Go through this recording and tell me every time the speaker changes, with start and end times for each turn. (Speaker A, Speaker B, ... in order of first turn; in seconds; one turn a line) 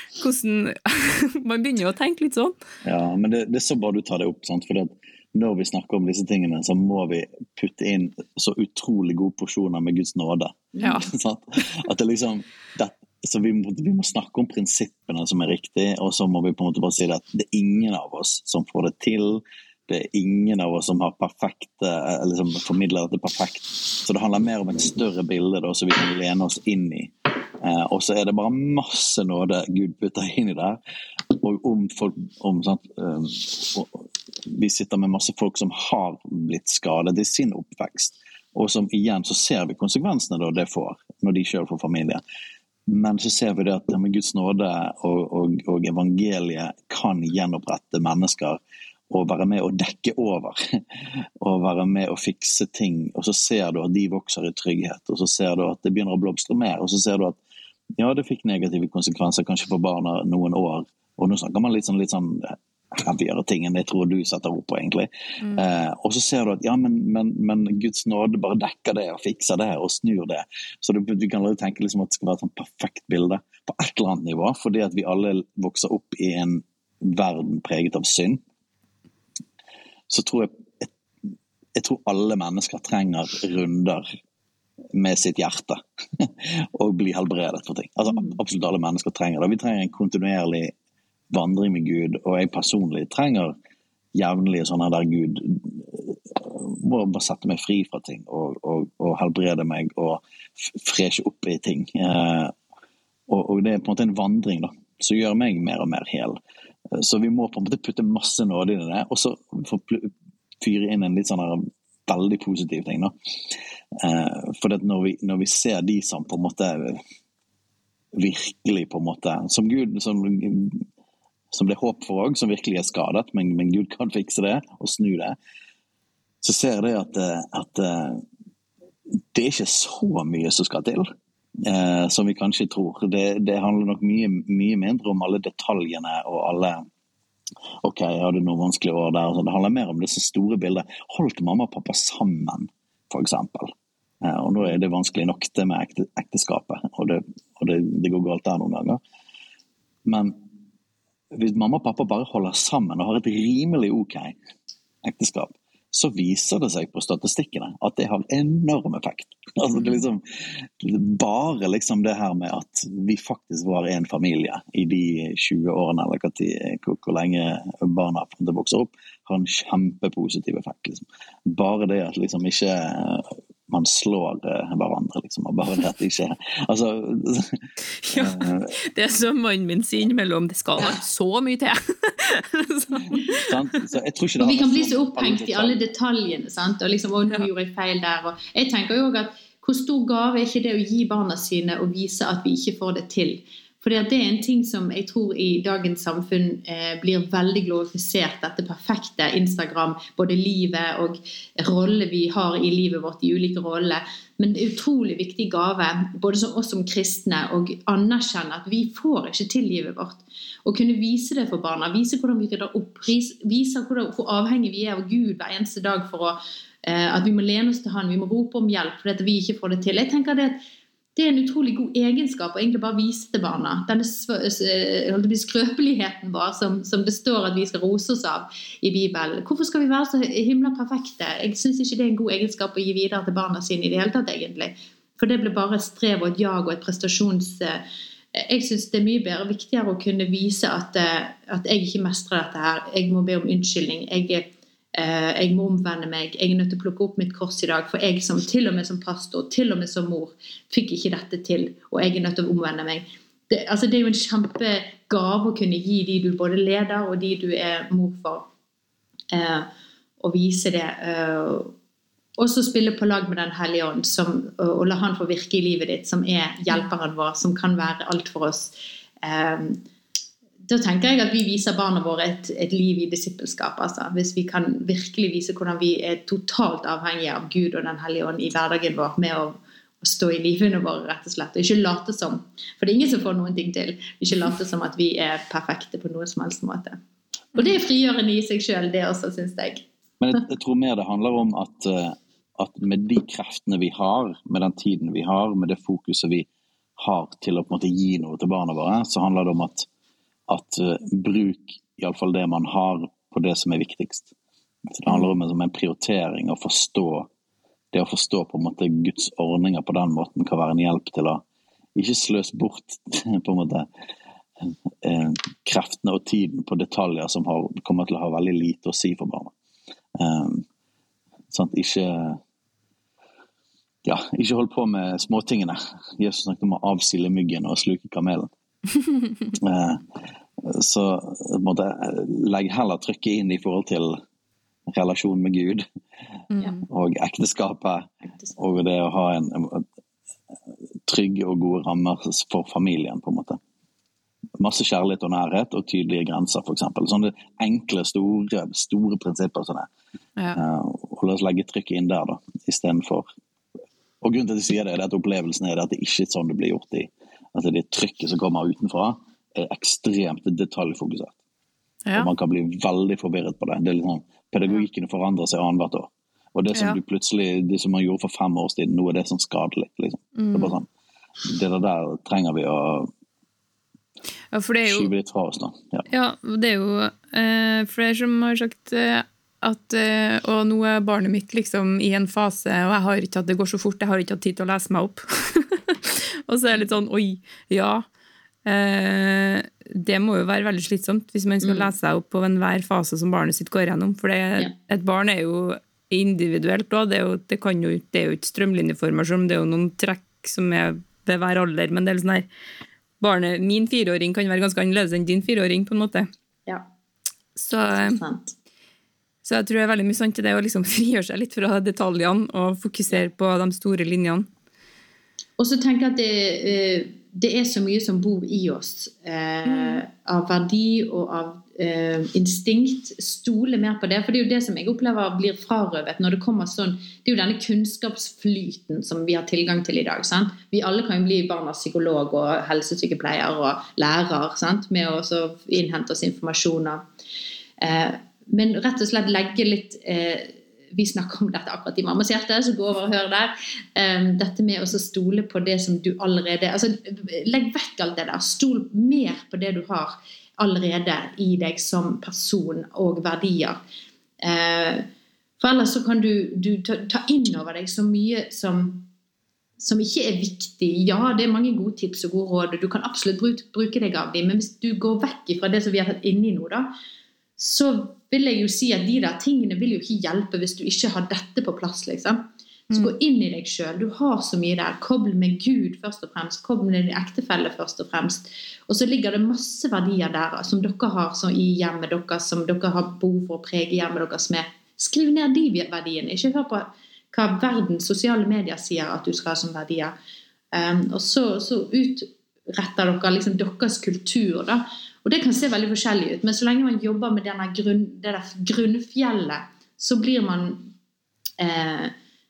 Speaker A: 0.2-2.6
Speaker B: 2.8-30.8
Speaker A: 10.8-11.1
Speaker B: 31.3-42.2
Speaker B: 42.9-57.4
Speaker B: 58.0-78.4
Speaker B: 80.1-80.9
Speaker B: 81.8-84.1
Speaker B: 84.9-90.7
Speaker B: 91.3-93.5
Speaker B: 94.1-102.5
Speaker B: 103.3-106.4
Speaker B: 106.9-113.1
Speaker B: 114.0-117.0
Speaker B: 118.1-120.8
Speaker B: 121.5-125.3
Speaker B: 126.4-128.2
Speaker B: 129.3-136.8
Speaker B: 137.8-149.0
Speaker B: 150.1-150.4
Speaker B: 151.3-154.3
Speaker B: 155.0-178.8
Speaker A: 178.0-183.5
Speaker B: 183.1-185.8
Speaker C: 184.4-220.6
Speaker C: 221.2-237.8
Speaker C: 238.3-258.4
Speaker C: 259.3-259.7
Speaker C: 260.2-261.7
Speaker C: 262.4-269.8
Speaker C: 270.6-287.0
Speaker C: 287.5-289.8
Speaker B: 290.2-296.5
Speaker B: 297.0-299.9
Speaker B: 300.5-304.3
Speaker B: 305.0-307.3
Speaker B: 307.9-311.4
Speaker B: 311.9-313.9
Speaker B: 314.6-319.5
Speaker B: 320.2-320.6
Speaker B: 321.5-322.4
Speaker B: 324.0-328.5
Speaker B: 329.6-330.1
Speaker B: 330.6-334.2
Speaker B: 334.9-335.8
Speaker A: 336.5-336.8
Speaker B: 336.9-339.9
Speaker B: 341.1-343.6
Speaker B: 344.6-349.9
Speaker B: 350.5-353.3
Speaker B: 354.2-361.4
Speaker B: 362.1-370.9
Speaker A: 370.4-370.8
Speaker B: 371.4-373.1
Speaker A: 374.5-375.1
Speaker B: 374.8-376.1
Speaker A: 376.1-388.1
Speaker A: 388.6-402.5
Speaker C: 391.6-391.9
Speaker A: 403.2-406.3
Speaker A: 407.6-408.2
Speaker C: 407.9-408.5
Speaker A: 409.4-414.5
Speaker C: 415.6-437.0
Speaker A: 419.6-420.0
Speaker C: 437.8-453.8
Speaker C: 454.4-455.1
Speaker C: 455.6-459.1
Speaker C: 459.8-466.9
Speaker C: 467.6-490.1
Speaker C: 490.7-500.8
Speaker C: 501.6-502.1